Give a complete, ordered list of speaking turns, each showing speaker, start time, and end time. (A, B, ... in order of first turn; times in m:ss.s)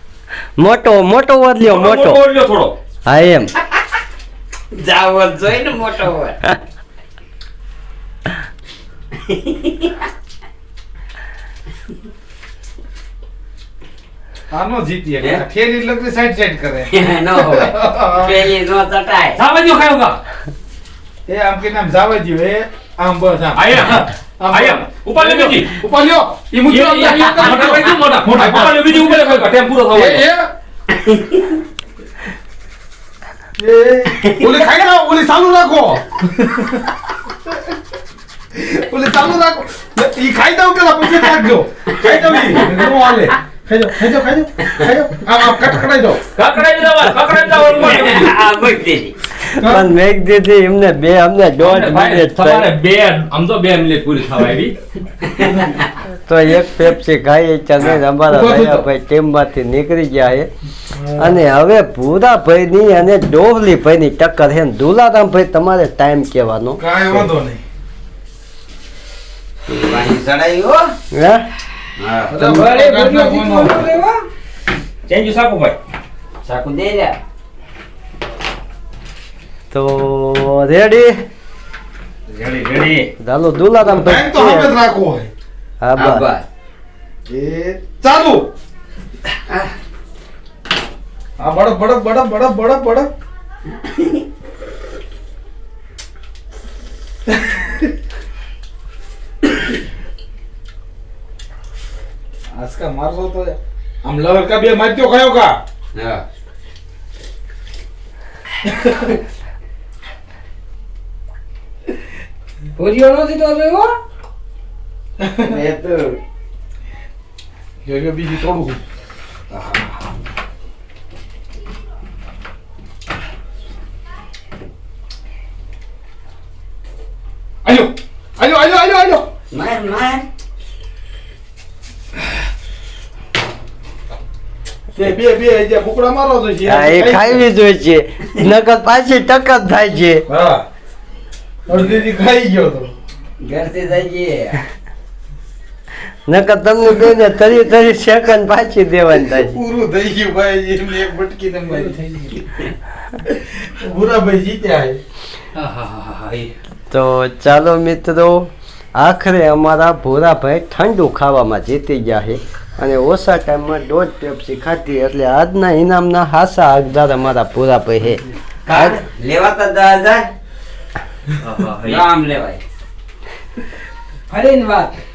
0:00.6-0:02.2 A
0:01.6-0:02.8 B
0:03.0-0:03.5 A
0:04.7-0:06.4 C
0:09.1-0:10.1 C
0:14.5-0:18.5 D
0:16.9-0:19.4 C
0:19.4-0:20.2 B
0:21.3-0:30.5 D
0:23.5-0:25.8 B
0:26.6-0:30.2 B
0:30.9-0:31.6 C
0:33.6-0:36.8 D
0:34.2-0:34.7 C
0:38.5-0:46.2 D
0:41.9-0:43.0 C
0:46.4-0:48.4 B
0:47.8-0:49.2 C
0:49.4-0:52.7 A
0:49.6-0:49.9 D
0:51.6-0:54.8 B
0:55.2-0:55.9 C
0:55.4-0:55.7 D
0:56.3-1:00.5 A
0:57.8-0:58.8 D
1:00.9-1:01.4 D
1:01.2-1:07.3 A
1:06.8-1:07.6 D
1:09.7-1:10.9 C
1:11.1-1:11.5 A
1:12.0-1:12.4 C
1:12.3-1:13.9 D
1:12.4-1:14.2 E
1:15.1-1:15.8 B
1:16.4-1:17.2 C
1:19.7-1:21.2 A
1:22.3-1:23.1 B
1:23.2-1:24.8 A
1:23.9-1:25.3 D
1:25.8-1:26.2 A
1:26.0-1:26.5 C
1:27.3-1:28.5 D
1:31.4-1:33.1 D
1:33.8-1:34.2 C
1:37.3-1:37.6 D
1:42.5-1:45.6 D
1:45.9-1:46.2 C
1:48.8-1:49.1 D
1:52.8-1:54.0 E
1:55.2-1:55.6 D
1:55.4-1:56.2 C
1:57.8-1:58.8 D
1:59.6-1:59.8 D
2:07.6-2:09.3 D
2:09.5-2:10.3 C
2:15.0-2:17.4 D
2:16.7-2:20.2 A
2:20.3-2:20.7 D
2:21.7-2:22.9 D
2:23.4-2:24.6 C
2:26.3-2:29.6 A
2:29.3-2:32.0 D
2:31.7-2:32.4 E
2:32.4-2:32.7 C
2:33.3-2:35.0 D
2:35.6-2:36.5 B
2:36.9-2:49.0 A
2:48.7-2:50.3 C
2:51.4-2:52.1 B
2:51.8-2:52.6 C
2:54.3-2:55.0 E